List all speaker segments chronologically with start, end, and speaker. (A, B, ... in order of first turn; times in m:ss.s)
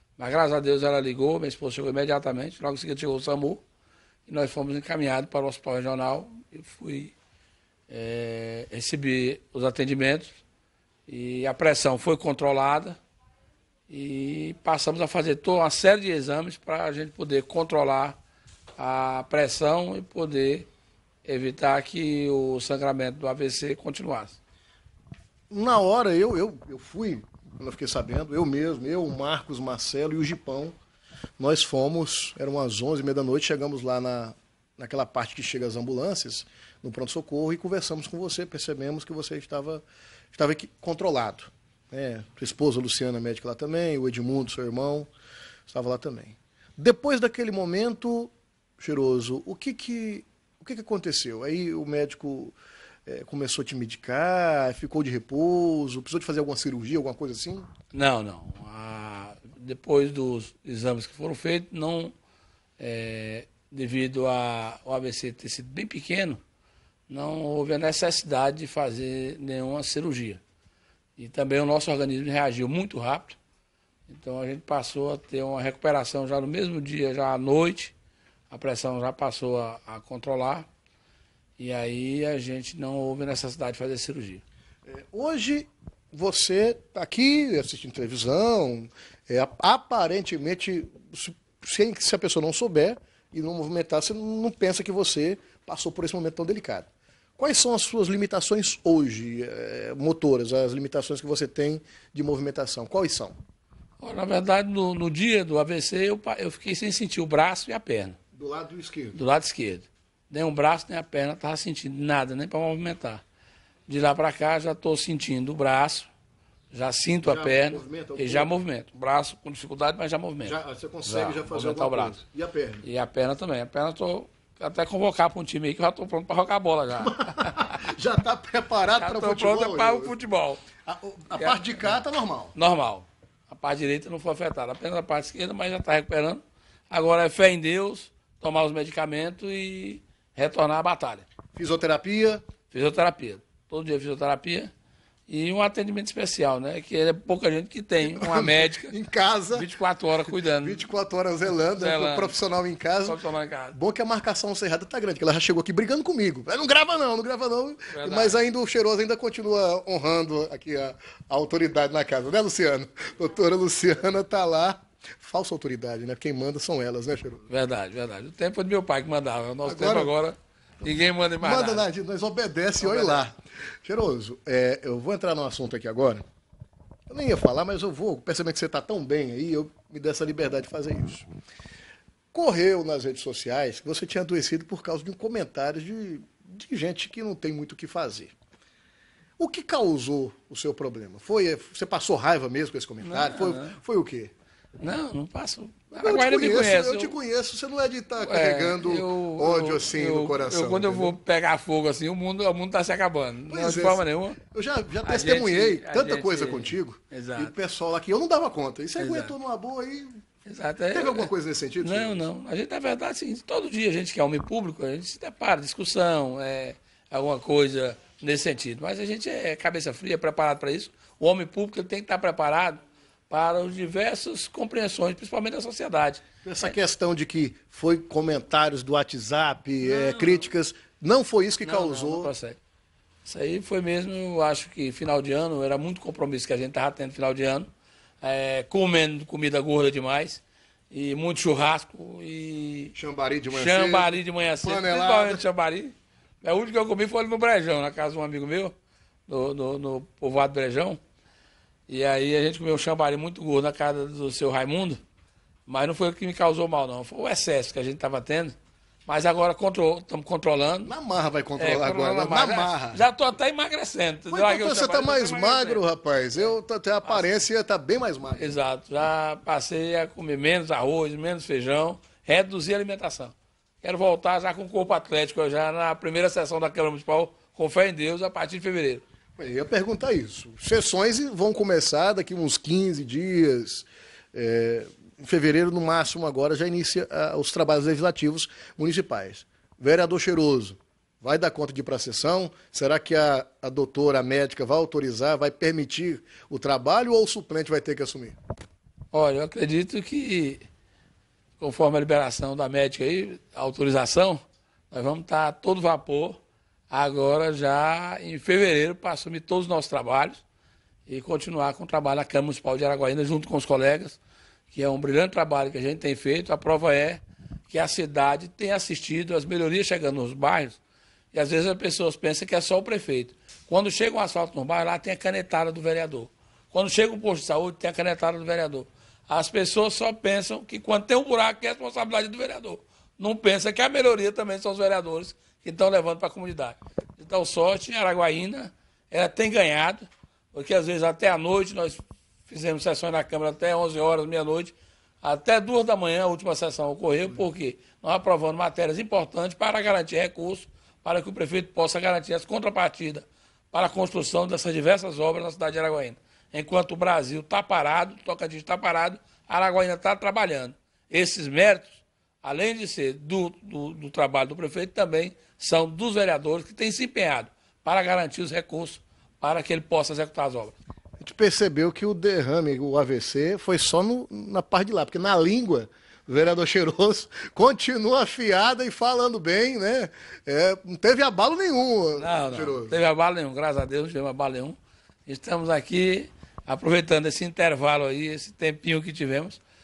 0:00.2-0:03.6 A
0:04.3-0:07.1 A
0:07.9-0:10.4 A
0:11.1-0:13.0 A
0:13.9-0:18.2 A
0:18.8-0:20.7 A
0:21.2-0:24.4 A
0:25.5-0:30.7 B
0:31.4-0:39.8 B
0:40.3-0:45.1 B
0:45.7-0:52.5 B
0:53.0-0:57.7 B
0:57.9-1:02.1 A
1:02.8-1:06.4 A
1:07.1-1:10.4 A
1:11.2-1:13.4 A
1:14.1-1:17.9 A
1:18.5-1:20.7 A
1:21.6-1:24.4 A
1:24.8-1:43.4 B
1:44.0-1:48.2 A
1:48.3-1:49.2 B
1:49.1-1:53.2 A
1:53.9-1:56.1 A
1:56.7-2:02.2 A
1:57.2-1:58.5 B
2:00.4-2:02.8 B
2:02.8-2:07.8 A
2:07.0-2:10.1 B
2:08.9-2:10.6 A
2:10.8-2:12.5 B
2:11.3-2:12.0 A
2:12.5-2:21.2 A
2:21.5-2:22.4 B
2:22.7-2:24.7 A
2:25.3-2:28.9 A
2:28.0-2:29.7 B
2:29.5-2:30.8 A
2:30.4-2:33.2 B
2:31.7-2:32.3 A
2:33.0-2:33.8 A
2:33.7-2:47.4 B
2:37.9-2:38.4 A
2:47.5-2:51.8 A
2:49.6-2:50.1 B
2:51.4-2:56.2 B
2:52.8-2:53.2 A
2:57.1-3:01.3 B
3:02.3-3:08.3 B
3:09.4-3:14.3 B
3:13.0-3:13.8 A
3:14.8-3:17.1 A
3:16.0-3:21.2 B
3:18.2-3:24.4 A
3:23.5-3:30.1 B
3:25.0-3:27.5 A
3:29.0-3:29.3 A
3:30.4-3:31.3 A
3:30.9-3:32.3 B
3:31.8-3:46.7 A
3:46.4-3:52.3 B
3:49.8-3:50.5 A
3:51.6-3:52.6 A
3:53.2-3:57.7 A
3:58.2-4:02.9 A
4:02.9-4:05.4 B
4:03.5-4:08.7 A
4:09.3-4:11.0 A
4:11.9-4:15.0 A
4:15.7-4:20.9 A
4:20.8-4:23.0 B
4:21.6-4:27.4 A
4:24.3-4:28.6 B
4:28.4-4:39.0 A
4:39.4-4:58.4 B
4:59.1-5:00.6 A
5:01.6-5:10.4 A
5:11.1-5:14.2 A
5:14.7-5:20.8 A
5:21.3-6:10.7 A
6:11.2-6:23.0 B
6:22.1-6:29.6 A